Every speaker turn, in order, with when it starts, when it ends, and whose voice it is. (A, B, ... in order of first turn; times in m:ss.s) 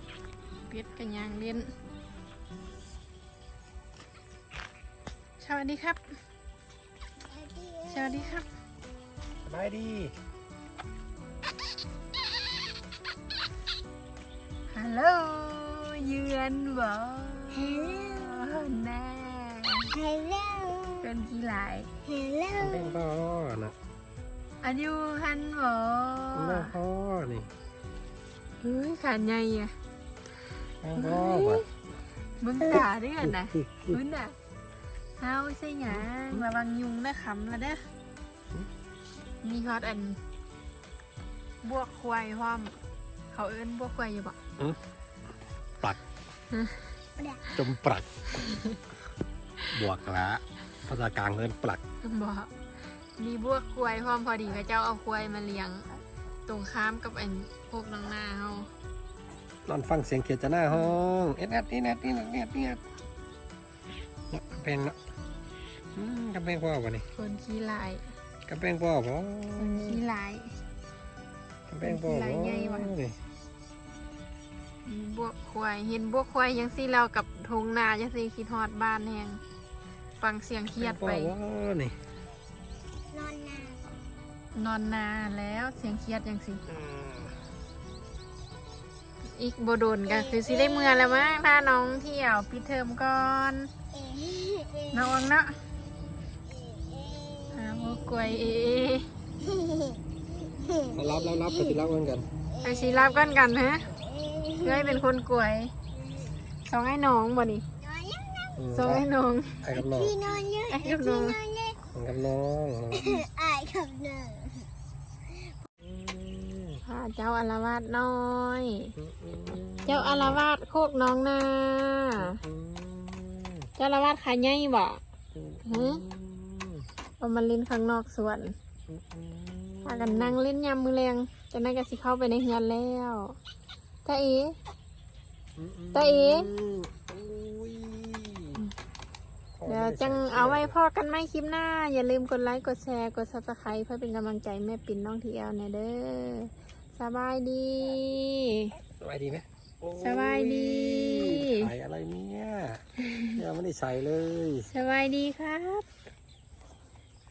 0:00.7-0:01.7 A
0:05.4-0:06.0 A
0:07.3-0:08.4 B
0:07.9-0:08.5 A
0:09.4-0:10.1 C
0:14.7-0:19.9 A
0:17.5-0:18.5 B
0:19.9-0:21.1 B
0:21.0-0:21.9 A
0:22.0-0:23.0 B
0:22.6-0:23.8 C
0:24.6-0:26.8 A
0:26.4-0:27.5 C
0:28.6-0:29.7 A
0:30.8-0:31.6 C
0:31.0-0:31.6 A
0:32.4-0:34.4 A
0:32.8-0:34.0 C
0:35.2-0:37.8 A
0:39.4-0:40.2 A
0:41.6-0:42.7 A
0:43.3-0:44.4 A
0:46.5-0:46.8 A
0:47.2-0:47.4 B
0:47.6-0:48.1 C
0:49.7-0:51.8 C
0:52.0-0:52.5 A
0:53.2-0:55.9 A
0:56.5-0:58.7 A
0:59.7-1:02.8 C
1:00.7-1:01.0 A
1:04.3-1:05.0 C
1:06.0-1:07.1 C
1:07.2-1:08.1 A
1:08.5-1:10.0 C
1:09.6-1:10.6 A
1:11.7-1:13.2 C
1:11.8-1:12.9 A
1:14.8-1:19.4 A
1:20.2-1:21.3 A
1:20.8-1:22.0 C
1:23.1-1:23.8 B
1:24.6-1:26.6 A
1:26.7-1:27.3 C
1:29.3-1:33.7 A
1:30.1-1:31.6 B
1:33.9-1:35.2 B
1:34.9-1:35.5 A
1:36.5-1:37.6 B
1:37.5-1:39.1 A
1:39.4-1:41.8 B
1:40.9-1:42.3 C
1:42.5-1:45.0 B
1:42.6-1:43.9 A
1:44.6-1:45.7 A
1:46.7-1:47.6 A
1:47.8-1:48.6 B
1:48.6-1:49.1 C
1:48.7-1:49.7 A
1:49.6-1:50.2 C
1:49.8-1:51.8 B
1:50.7-1:51.4 A
1:51.9-1:53.2 C
1:52.9-1:54.7 B
1:55.8-1:56.8 C
1:56.8-1:59.0 A
1:59.0-2:00.4 C
1:59.9-2:02.4 A
2:02.2-2:03.7 C
2:03.8-2:05.0 A
2:05.3-2:06.9 C
2:05.6-2:06.0 A
2:07.2-2:08.6 A
2:08.9-2:10.4 C
2:09.8-2:13.4 A
2:14.0-2:14.6 A
2:15.6-2:18.6 C
2:15.9-2:16.5 A
2:19.6-2:20.8 C
2:19.7-2:28.8 A
2:29.0-2:32.8 C
2:30.0-2:31.7 A
2:33.0-2:33.3 A
2:33.4-2:34.7 C
2:34.7-2:35.9 A